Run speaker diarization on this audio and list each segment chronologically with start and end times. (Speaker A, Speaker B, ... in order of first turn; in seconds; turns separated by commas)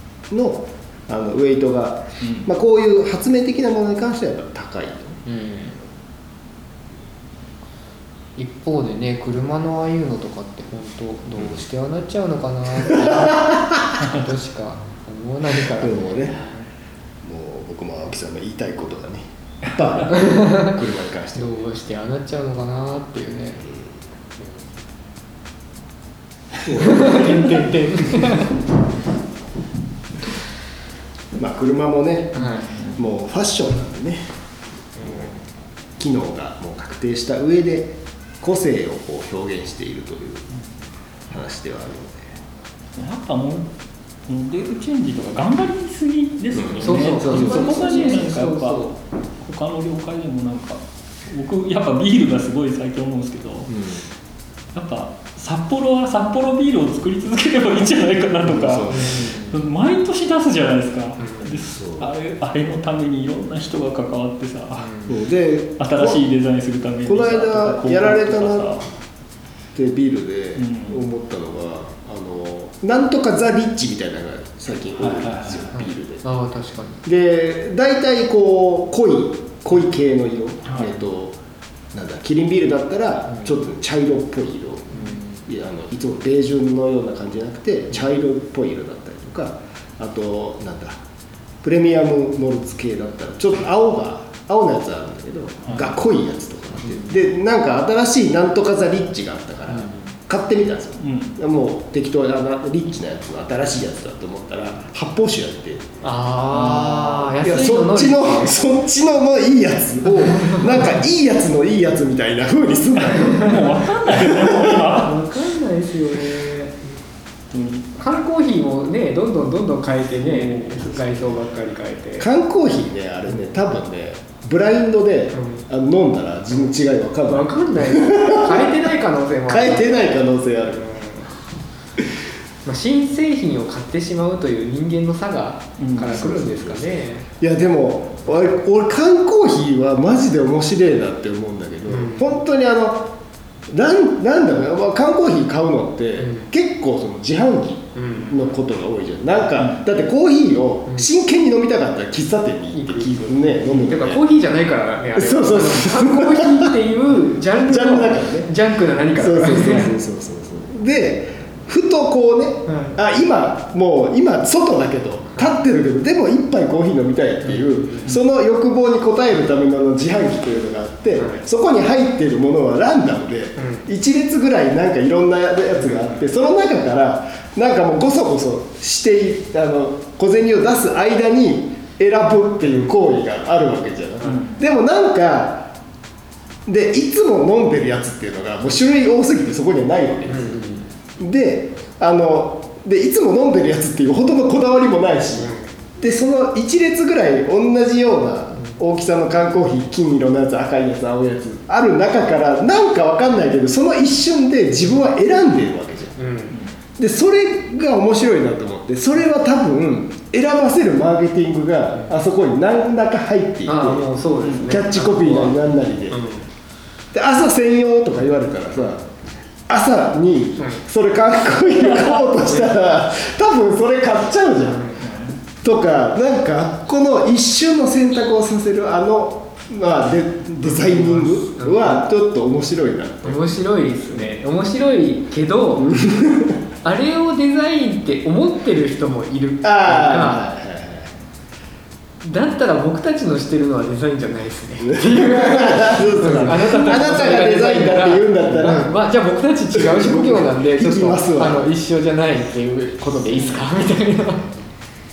Speaker A: 0.3-5.2, Speaker B: 2.2-2.5, Speaker C: 5.3-5.8, Speaker C: 8.4-16.5, Speaker A: 12.8-14.1, Speaker A: 15.7-16.4, Speaker A: 17.2-21.6, Speaker C: 20.1-20.8, Speaker C: 21.4-23.7, Speaker A: 26.6-27.6, Speaker C: 26.8-28.6, Speaker A: 31.4-34.3, Speaker C: 32.4-32.7, Speaker A: 35.0-35.4, Speaker A: 36.0-40.5, Speaker A: 41.3-42.4, Speaker B: 43.0-43.7, Speaker B: 44.3-53.9, Speaker A: 46.6-48.0, Speaker C: 46.8-48.9, Speaker A: 53.7-54.0, Speaker B: 54.7-65.1, Speaker A: 58.4-59.3, Speaker C: 58.9-59.6, Speaker C: 61.2-61.5, Speaker A: 61.4-62.1, Speaker C: 64.8-65.1, Speaker A: 65.1-66.2, Speaker B: 65.8-68.9, Speaker A: 67.0-68.8, Speaker A: 69.7-76.2, Speaker B: 70.6-71.0, Speaker B: 75.0-75.7, Speaker C: 75.7-77.0, Speaker A: 77.0-81.4, Speaker B: 80.7-80.9, Speaker A: 81.9-91.0, Speaker C: 84.9-85.4, Speaker A: 91.6-105.9, Speaker B: 95.7-95.9, Speaker C: 96.8-97.2, Speaker C: 99.7-100.1, Speaker B: 101.0-101.4, Speaker C: 106.0-108.5, Speaker A: 106.5-114.9, Speaker B: 113.1-115.2, Speaker C: 114.8-116.8, Speaker B: 117.5-117.9, Speaker C: 118.0-122.3, Speaker B: 120.2-121.0, Speaker A: 122.2-128.7, Speaker C: 125.3-125.7, Speaker C: 127.3-130.1, Speaker A: 129.5-131.0, Speaker C: 130.7-131.3, Speaker C: 132.7-137.3, Speaker B: 135.8-136.2, Speaker A: 136.0-143.1, Speaker C: 141.9-142.3, Speaker A: 143.7-154.2, Speaker C: 146.2-146.5, Speaker C: 147.9-148.4, Speaker C: 152.7-159.9, Speaker A: 155.2-156.8, Speaker A: 157.5-158.5, Speaker A: 159.1-185.7, Speaker C: 162.7-163.0, Speaker C: 167.4-168.1, Speaker C: 171.2-171.4, Speaker C: 173.6-173.9, Speaker B: 184.2-184.6, Speaker A: 186.7-206.2, Speaker C: 190.3-190.9, Speaker C: 195.4-195.7, Speaker C: 206.2-206.6, Speaker A: 207.0-214.1, Speaker C: 213.7-216.5, Speaker B: 214.4-214.7, Speaker A: 214.6-216.2, Speaker A: 217.1-219.1, Speaker A: 219.7-224.9, Speaker C: 224.7-225.0, Speaker B: 225.0-225.4, Speaker A: 225.6-233.5, Speaker C: 230.7-232.0, Speaker C: 233.2-236.0, Speaker A: 235.8-236.6, Speaker C: 236.8-240.5, Speaker A: 239.6-241.2, Speaker C: 242.2-254.5, Speaker A: 244.8-248.9, Speaker A: 249.7-251.7